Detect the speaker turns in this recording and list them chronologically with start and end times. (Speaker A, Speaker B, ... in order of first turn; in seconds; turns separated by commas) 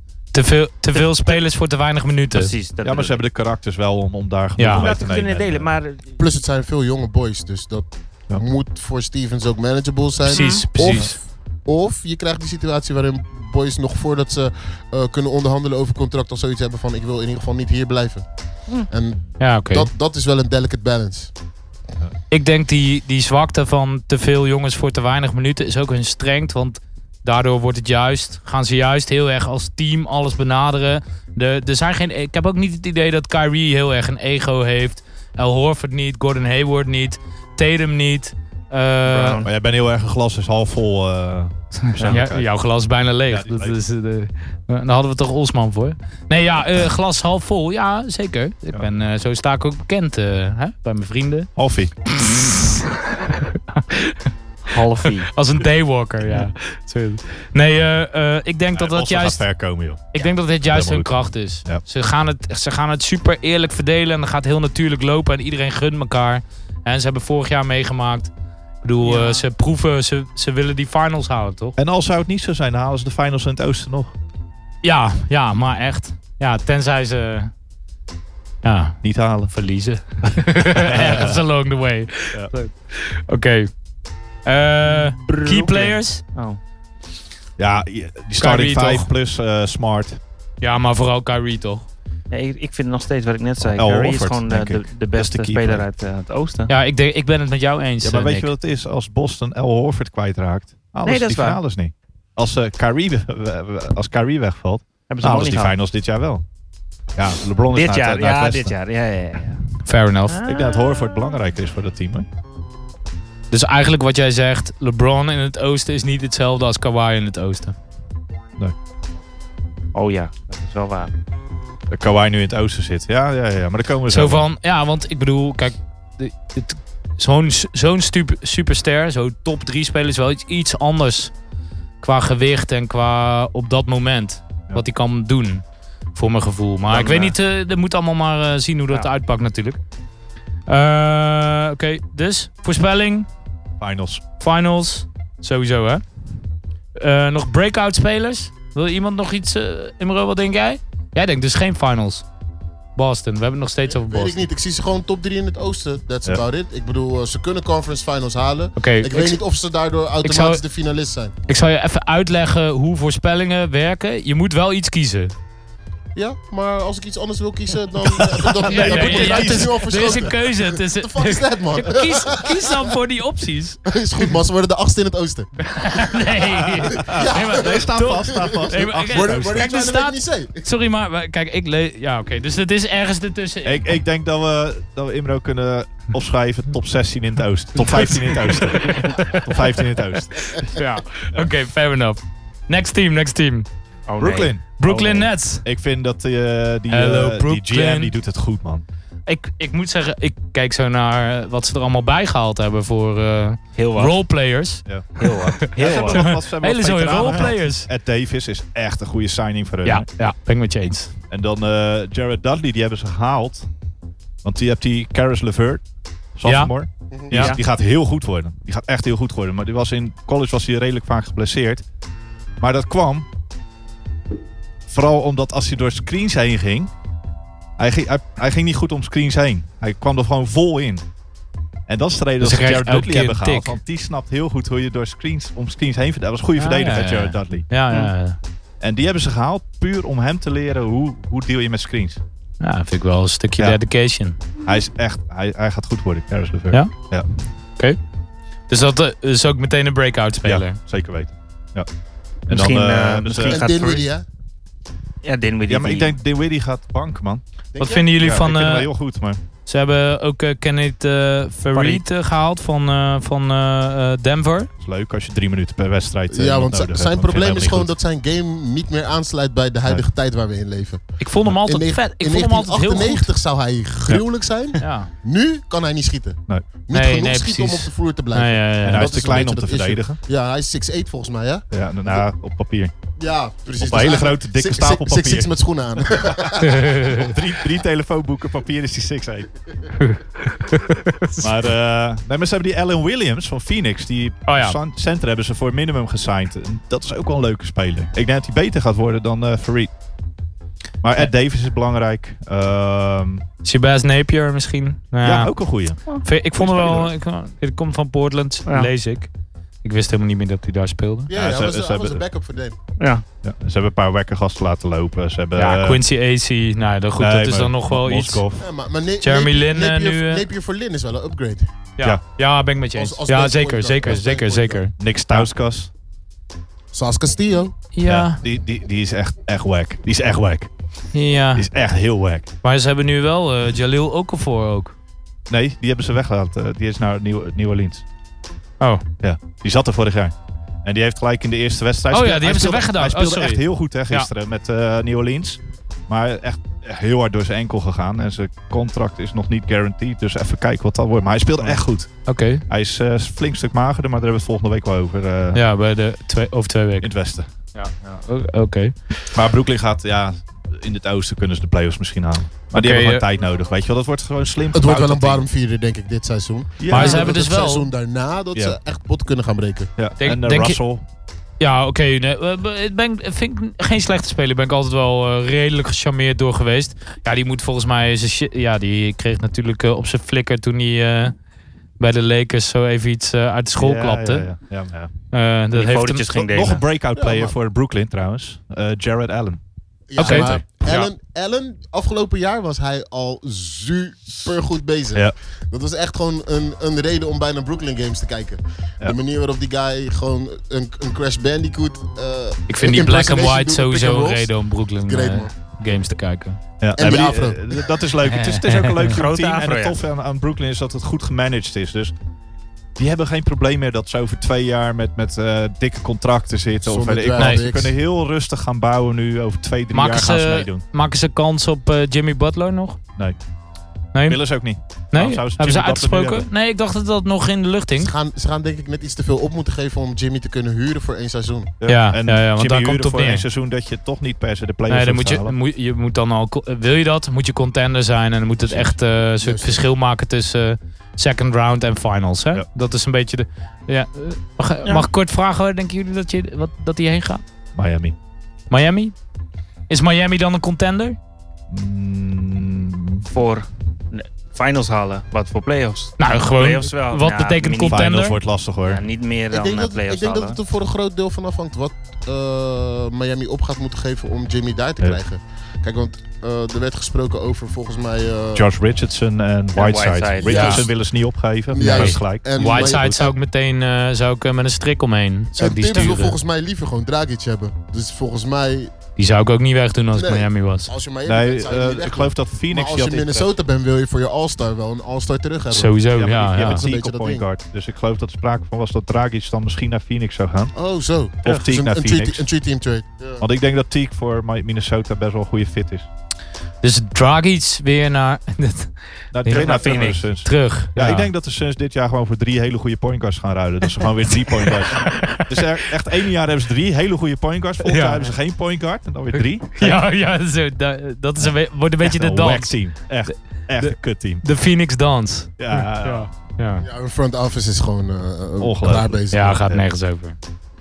Speaker A: 0.3-2.5, Speaker B: 0.9-1.4, Speaker B: 2.3-3.2, Speaker C: 2.8-5.7, Speaker A: 4.6-4.9, Speaker B: 4.7-6.2, Speaker D: 6.2-18.3, Speaker A: 10.2-11.2, Speaker B: 10.3-10.6, Speaker D: 18.9-21.3, Speaker A: 19.4-19.9, Speaker A: 22.3-39.4, Speaker B: 39.0-39.5, Speaker C: 39.4-42.5, Speaker A: 41.8-51.5, Speaker C: 43.3-43.8, Speaker C: 51.5-51.9, Speaker A: 52.1-59.4, Speaker B: 54.7-55.3, Speaker C: 58.7-60.1, Speaker A: 60.1-68.3, Speaker C: 60.6-61.8, Speaker A: 68.8-71.8, Speaker B: 69.0-69.4, Speaker C: 71.8-74.1, Speaker A: 74.8-77.5, Speaker A: 78.6-83.7, Speaker C: 79.0-79.5, Speaker C: 80.7-81.4, Speaker A: 84.4-86.2, Speaker B: 84.9-86.6, Speaker C: 87.6-90.2, Speaker A: 88.4-89.1, Speaker A: 90.6-91.9, Speaker B: 92.3-96.7, Speaker C: 93.6-95.8, Speaker A: 96.7-98.5, Speaker C: 98.0-106.4, Speaker B: 101.0-101.6, Speaker B: 105.1-105.7, Speaker C: 107.1-108.7, Speaker B: 107.7-109.6, Speaker A: 109.8-110.3, Speaker B: 110.3-111.3, Speaker C: 110.4-112.3, Speaker A: 113.5-117.8, Speaker B: 119.9-121.1, Speaker C: 121.9-124.4, Speaker A: 124.1-131.3, Speaker A: 132.0-135.6, Speaker A: 136.1-139.8, Speaker B: 136.9-137.3, Speaker A: 140.7-143.3, Speaker C: 143.8-144.2, Speaker A: 144.4-146.0, Speaker A: 147.0-152.2, Speaker A: 152.9-154.4, Speaker D: 153.9-161.3, Speaker A: 158.8-159.4, Speaker A: 160.2-160.6, Speaker A: 161.5-165.3, Speaker D: 166.1-172.9, Speaker A: 168.6-173.8, Speaker C: 168.7-169.8, Speaker D: 173.9-175.5, Speaker A: 175.6-183.9, Speaker C: 176.6-179.6, Speaker D: 177.0-180.6, Speaker C: 183.6-190.7, Speaker A: 187.8-189.8, Speaker A: 190.4-193.7, Speaker B: 194.1-195.3, Speaker C: 194.2-194.6, Speaker A: 194.8-195.6, Speaker C: 195.6-198.8, Speaker A: 196.9-198.1, Speaker A: 199.3-207.9, Speaker B: 203.8-204.1, Speaker B: 205.2-206.3, Speaker C: 205.6-210.1, Speaker A: 209.8-211.1, Speaker C: 211.3-213.7, Speaker C: 214.4-215.8, Speaker C: 216.3-221.8, Speaker A: 216.4-216.7, Speaker B: 217.3-217.6, Speaker C: 222.6-223.3, Speaker C: 224.9-226.9, Speaker C: 227.8-231.0, Speaker C: 231.9-237.7, Speaker A: 232.4-233.8, Speaker A: 236.6-238.4, Speaker C: 238.8-242.2, Speaker A: 242.6-244.4, Speaker C: 244.7-247.2, Speaker A: 248.7-250.8, Speaker C: 250.4-251.9, Speaker C: 252.5-253.6, Speaker B: 252.5-254.1, Speaker D: 253.5-254.2, Speaker B: 255.2-256.1, Speaker C: 255.7-257.4, Speaker D: 257.7-258.1, Speaker A: 257.8-258.9, Speaker C: 258.2-259.4, Speaker A: 259.6-264.7, Speaker B: 261.7-262.0, Speaker C: 264.8-267.9, Speaker D: 266.3-282.2, Speaker A: 271.2-273.3, Speaker A: 274.8-275.1, Speaker A: 276.9-279.1, Speaker C: 278.8-280.2, Speaker C: 281.7-282.9, Speaker D: 283.2-287.3, Speaker C: 283.8-285.5, Speaker C: 286.2-289.5, Speaker A: 286.6-287.3, Speaker A: 290.0-291.5, Speaker C: 291.4-299.9, Speaker A: 294.4-294.8, Speaker C: 301.0-303.4, Speaker A: 303.6-305.5, Speaker C: 305.2-306.0, Speaker A: 306.2-309.3, Speaker C: 306.5-307.1, Speaker A: 309.8-311.3, Speaker D: 311.3-312.8, Speaker C: 311.3-312.2, Speaker B: 313.0-313.2, Speaker C: 313.4-316.0, Speaker A: 315.6-318.4, Speaker C: 317.2-318.7, Speaker D: 318.6-321.7, Speaker A: 319.2-320.4, Speaker A: 322.0-325.5, Speaker D: 322.9-324.8, Speaker C: 325.0-325.9, Speaker D: 326.9-327.8, Speaker A: 327.9-328.4, Speaker C: 328.1-330.7, Speaker A: 331.1-331.6, Speaker C: 331.5-332.5, Speaker A: 332.6-334.9, Speaker C: 335.5-338.0, Speaker C: 339.2-355.6, Speaker A: 342.1-344.3, Speaker A: 351.6-352.6, Speaker A: 355.5-357.1, Speaker C: 357.0-357.5, Speaker A: 357.7-358.9, Speaker C: 359.3-365.5, Speaker A: 362.7-363.2, Speaker D: 364.7-369.9, Speaker C: 366.8-367.4, Speaker A: 366.9-367.9, Speaker C: 370.0-371.0, Speaker A: 370.2-370.8, Speaker A: 371.6-381.4, Speaker A: 382.0-384.5, Speaker C: 383.8-385.1, Speaker A: 385.3-386.3, Speaker B: 385.7-386.8, Speaker C: 386.3-389.6, Speaker D: 387.2-387.5, Speaker D: 390.1-404.5, Speaker A: 390.2-390.5, Speaker C: 390.2-391.1, Speaker A: 402.7-406.6, Speaker D: 405.0-405.5, Speaker C: 406.8-412.1, Speaker D: 406.9-407.7, Speaker A: 408.3-408.9, Speaker B: 409.1-410.0, Speaker C: 413.0-420.8, Speaker D: 416.8-417.9, Speaker A: 417.4-417.6, Speaker A: 419.9-423.0, Speaker A: 424.1-424.4, Speaker C: 424.2-426.5, Speaker A: 425.1-428.1, Speaker D: 428.0-431.7, Speaker C: 431.8-435.5, Speaker A: 431.9-433.4, Speaker A: 434.9-447.4, Speaker C: 438.7-438.9, Speaker D: 439.4-439.8, Speaker C: 447.7-448.1, Speaker A: 448.7-449.1, Speaker A: 449.9-451.2, Speaker C: 451.7-453.2, Speaker B: 453.3-458.1, Speaker A: 456.2-458.4, Speaker C: 457.9-459.0, Speaker B: 458.8-460.6, Speaker D: 459.5-468.6, Speaker C: 468.5-473.1, Speaker B: 469.8-470.8, Speaker D: 470.4-470.9, Speaker A: 470.5-470.8, Speaker D: 471.7-473.3, Speaker A: 471.8-476.3, Speaker D: 475.6-478.9, Speaker A: 479.2-480.9, Speaker D: 480.1-486.0, Speaker C: 481.2-483.5, Speaker A: 485.7-486.9, Speaker C: 486.1-490.7, Speaker D: 486.6-487.4, Speaker D: 490.7-493.4, Speaker C: 491.4-492.4, Speaker C: 493.4-496.1, Speaker A: 496.8-498.9, Speaker C: 499.3-510.0, Speaker B: 499.4-500.2, Speaker A: 499.5-501.3, Speaker A: 504.6-505.6, Speaker A: 507.8-508.3, Speaker A: 509.7-512.7, Speaker C: 511.4-514.4, Speaker A: 513.8-516.8, Speaker C: 515.6-516.3, Speaker D: 516.8-519.6, Speaker C: 518.6-519.8, Speaker A: 519.3-520.4